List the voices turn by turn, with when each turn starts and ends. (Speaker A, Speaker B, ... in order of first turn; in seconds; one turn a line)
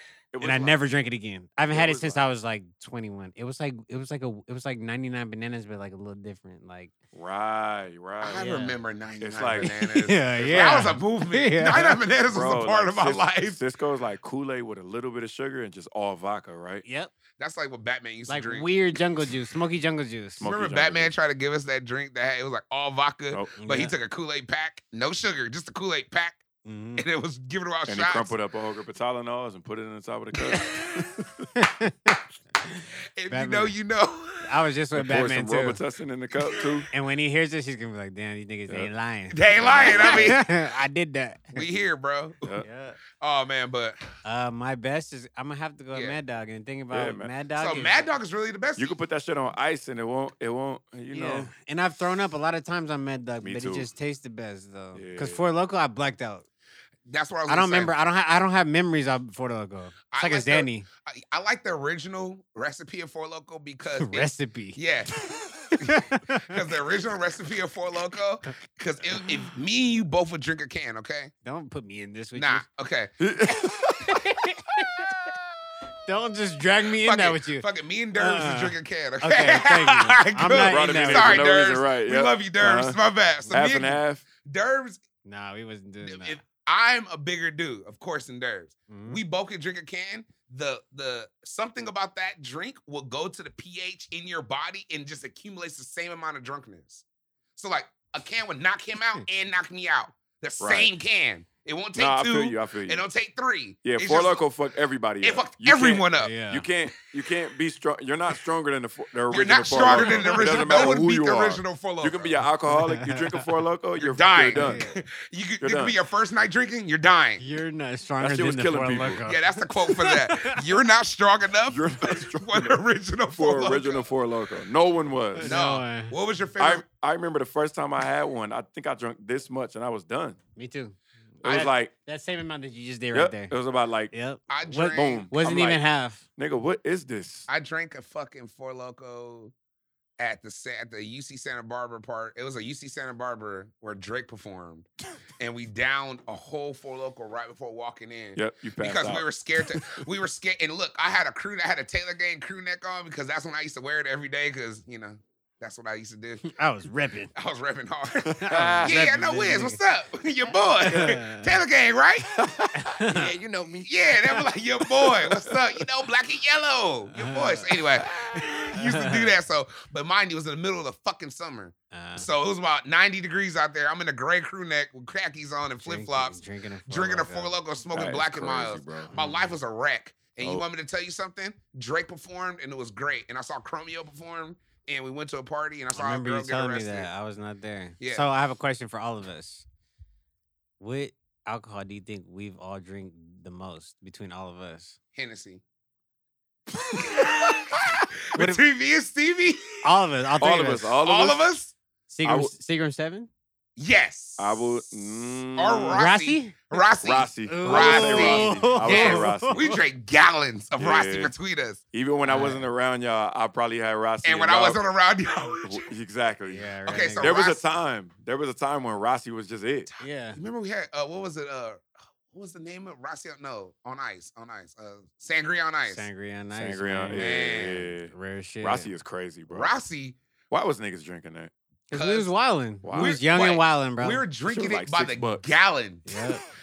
Speaker A: 0.3-0.8
Speaker B: 0.4-6.9
Speaker A: 1.7-2.2
Speaker A: 7.1-8.5
Speaker C: 8.2-13.6
Speaker B: 8.4-8.7
Speaker A: 9.2-9.7
Speaker B: 9.6-12.0
Speaker A: 12.3-16.8
Speaker B: 16.8-17.1
Speaker C: 17.4-18.7
Speaker B: 18.3-20.4
Speaker A: 20.4-21.1
Speaker C: 20.4-26.4
Speaker B: 23.6-23.9
Speaker B: 26.6-27.0
Speaker C: 27.0-28.4
Speaker A: 27.9-31.5
Speaker C: 30.5-31.0
Speaker B: 31.6-33.7
Speaker C: 33.1-34.4
Speaker B: 34.4-35.8
Speaker A: 34.9-36.9
Speaker B: 36.9-41.6
Speaker C: 39.3-40.5
Speaker A: 39.6-40.4
Speaker C: 41.5-42.6
Speaker B: 42.6-43.0
Speaker C: 43.2-44.0
Speaker B: 44.2-48.1
Speaker C: 45.9-46.2
Speaker A: 46.9-47.3
Speaker C: 47.6-49.0
Speaker A: 48.8-51.5
Speaker B: 51.1-56.5
Speaker A: 53.4-53.9
Speaker A: 54.9-55.4
Speaker C: 57.0-57.9
Speaker B: 57.5-60.9
Speaker C: 60.1-65.2
Speaker B: 64.0-64.8
Speaker C: 65.8-71.3
Speaker B: 65.8-66.6
Speaker B: 69.1-69.5
Speaker B: 71.4-72.6
Speaker C: 72.3-73.1
Speaker A: 73.2-74.2
Speaker B: 74.1-75.1
Speaker B: 76.1-77.6
Speaker C: 77.0-85.0
Speaker B: 78.1-81.4
Speaker A: 80.5-83.0
Speaker A: 83.5-84.2
Speaker B: 85.2-86.4
Speaker C: 86.0-97.0
Speaker B: 88.9-89.2
Speaker C: 97.6-104.5
Speaker A: 100.6-100.9
Speaker A: 101.9-103.0
Speaker A: 103.8-114.8
Speaker C: 105.2-106.3
Speaker B: 106.1-106.6
Speaker C: 109.3-112.3
Speaker B: 109.9-110.6
Speaker B: 112.7-113.5
Speaker C: 114.0-117.4
Speaker B: 114.5-115.0
Speaker A: 115.6-116.0
Speaker B: 117.4-120.6
Speaker A: 118.2-119.2
Speaker C: 119.2-124.1
Speaker A: 121.7-122.8
Speaker A: 123.3-125.6
Speaker B: 125.3-126.1
Speaker C: 125.4-126.8
Speaker A: 126.6-130.4
Speaker B: 130.6-133.5
Speaker A: 131.4-131.9
Speaker C: 131.4-131.7
Speaker A: 133.1-134.1
Speaker B: 134.1-136.2
Speaker C: 134.5-135.3
Speaker A: 134.9-135.8
Speaker A: 136.4-137.5
Speaker C: 137.5-139.5
Speaker C: 140.2-156.5
Speaker A: 148.3-149.2
Speaker B: 156.4-157.3
Speaker C: 157.3-162.4
Speaker A: 158.2-159.1
Speaker B: 158.4-159.8
Speaker B: 160.8-161.5
Speaker A: 160.9-161.2
Speaker A: 162.3-163.9
Speaker B: 162.7-163.3
Speaker C: 163.8-187.1
Speaker A: 165.2-165.5
Speaker B: 167.2-167.8
Speaker B: 168.8-169.3
Speaker B: 171.9-172.3
Speaker B: 175.8-177.5
Speaker A: 177.9-179.1
Speaker B: 179.1-179.5
Speaker A: 180.4-180.6
Speaker B: 185.9-189.6
Speaker C: 188.0-188.2
Speaker B: 190.8-194.9
Speaker C: 195.1-195.6
Speaker C: 196.9-199.8
Speaker B: 198.3-198.6
Speaker B: 199.8-200.9
Speaker A: 200.4-201.4
Speaker C: 201.0-201.7
Speaker B: 202.1-203.3
Speaker A: 202.2-202.5
Speaker C: 203.8-211.8
Speaker A: 204.4-206.0
Speaker B: 205.9-206.5
Speaker A: 207.0-209.6
Speaker B: 207.5-209.8
Speaker A: 210.8-211.3
Speaker A: 211.9-214.8
Speaker B: 212.2-212.6
Speaker C: 214.2-215.9
Speaker A: 215.6-219.9
Speaker B: 216.5-217.4
Speaker C: 216.8-217.6
Speaker C: 219.9-226.1
Speaker B: 220.0-220.4
Speaker B: 225.9-228.9
Speaker A: 226.5-229.7
Speaker C: 227.1-227.9
Speaker C: 229.5-230.2
Speaker A: 230.5-231.5
Speaker B: 231.9-234.2
Speaker C: 231.9-232.3
Speaker A: 232.8-233.2
Speaker C: 232.9-236.0
Speaker A: 234.5-235.4
Speaker B: 236.1-236.4